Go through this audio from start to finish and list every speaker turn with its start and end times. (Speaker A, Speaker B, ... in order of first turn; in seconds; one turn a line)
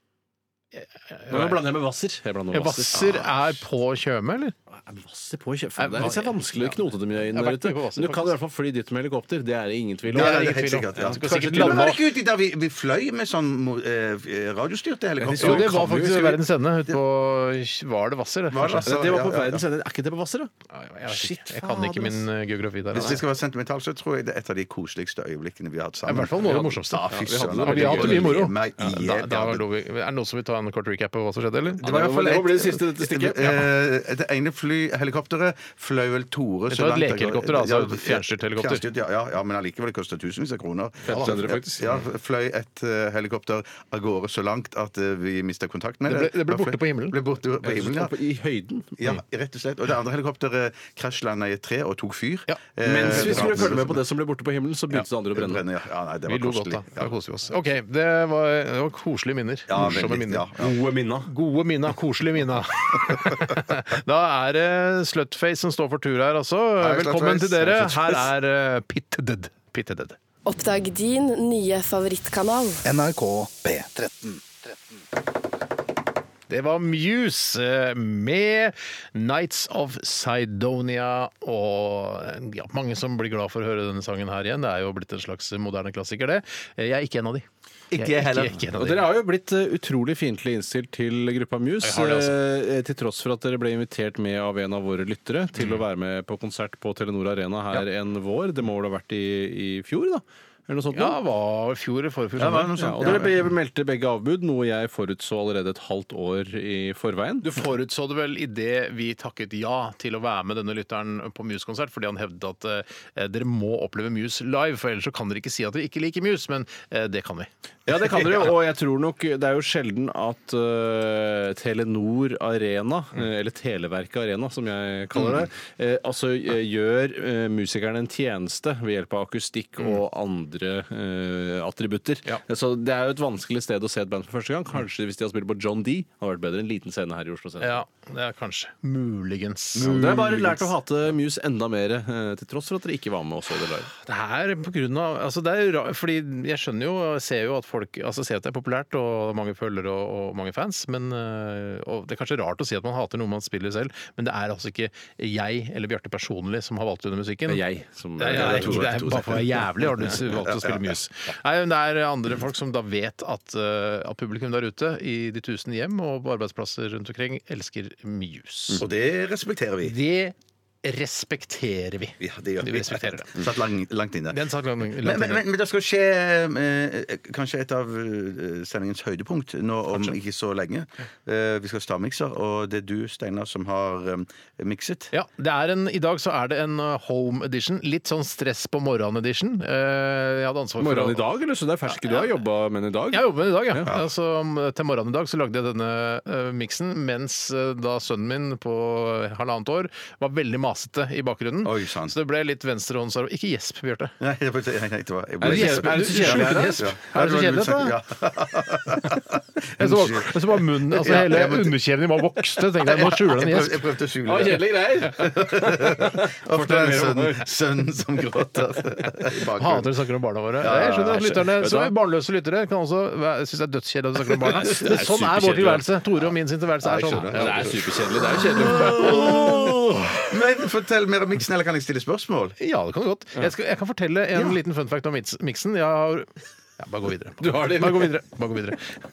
Speaker A: 0.7-1.6
Speaker B: 1.3-3.3
Speaker A: 2.5-4.5
Speaker B: 4.7-11.9
Speaker A: 5.8-8.3
Speaker C: 10.1-15.8
Speaker A: 10.1-12.0
Speaker B: 15.2-16.4
Speaker A: 15.4-18.9
Speaker C: 18.5-19.6
Speaker B: 18.8-20.5
Speaker A: 20.7-23.2
Speaker B: 21.1-22.3
Speaker C: 22.9-29.6
Speaker A: 26.1-31.9
Speaker B: 26.5-28.5
Speaker C: 31.8-48.1
Speaker B: 31.8-33.7
Speaker A: 36.7-38.8
Speaker B: 41.0-41.9
Speaker A: 41.1-41.4
Speaker A: 46.0-47.2
Speaker B: 47.6-49.0
Speaker C: 49.0-54.0
Speaker A: 52.5-53.8
Speaker B: 52.8-55.6
Speaker C: 54.9-57.1
Speaker A: 56.3-60.5
Speaker C: 59.7-60.7
Speaker B: 60.6-61.3
Speaker A: 61.2-70.2
Speaker C: 66.8-68.3
Speaker D: 70.5-72.8
Speaker E: 72.8-74.8
Speaker A: 76.5-89.0
Speaker C: 87.9-88.6
Speaker B: 88.7-101.2
Speaker A: 91.8-92.4
Speaker A: 100.9-103.3
Speaker C: 102.4-103.4
Speaker B: 102.8-107.5
Speaker A: 107.4-117.5
Speaker B: 117.9-137.8
Speaker C: 125.1-125.5
Speaker A: 137.6-140.3
Speaker C: 139.7-140.7
Speaker B: 139.8-143.9
Speaker A: 143.9-157.6
Speaker B: 157.5-159.4
Speaker A: 158.2-168.8
Speaker C: 158.2-160.9
Speaker C: 168.8-170.0
Speaker A: 169.8-173.4
Speaker C: 172.2-174.4
Speaker A: 174.3-175.4
Speaker C: 175.0-185.1
Speaker A: 185.1-191.2
Speaker B: 190.8-193.9
Speaker A: 193.1-204.1
Speaker C: 201.6-202.2
Speaker C: 204.2-211.8
Speaker B: 205.4-206.9
Speaker A: 205.4-208.0
Speaker A: 209.8-213.8
Speaker C: 212.6-219.9
Speaker B: 214.2-217.5
Speaker A: 219.6-227.8
Speaker C: 220.6-221.4
Speaker B: 220.7-221.9
Speaker B: 224.3-225.9
Speaker C: 226.8-232.6
Speaker B: 227.1-230.2
Speaker A: 228.4-229.8
Speaker A: 232.6-239.0
Speaker B: 237.4-238.2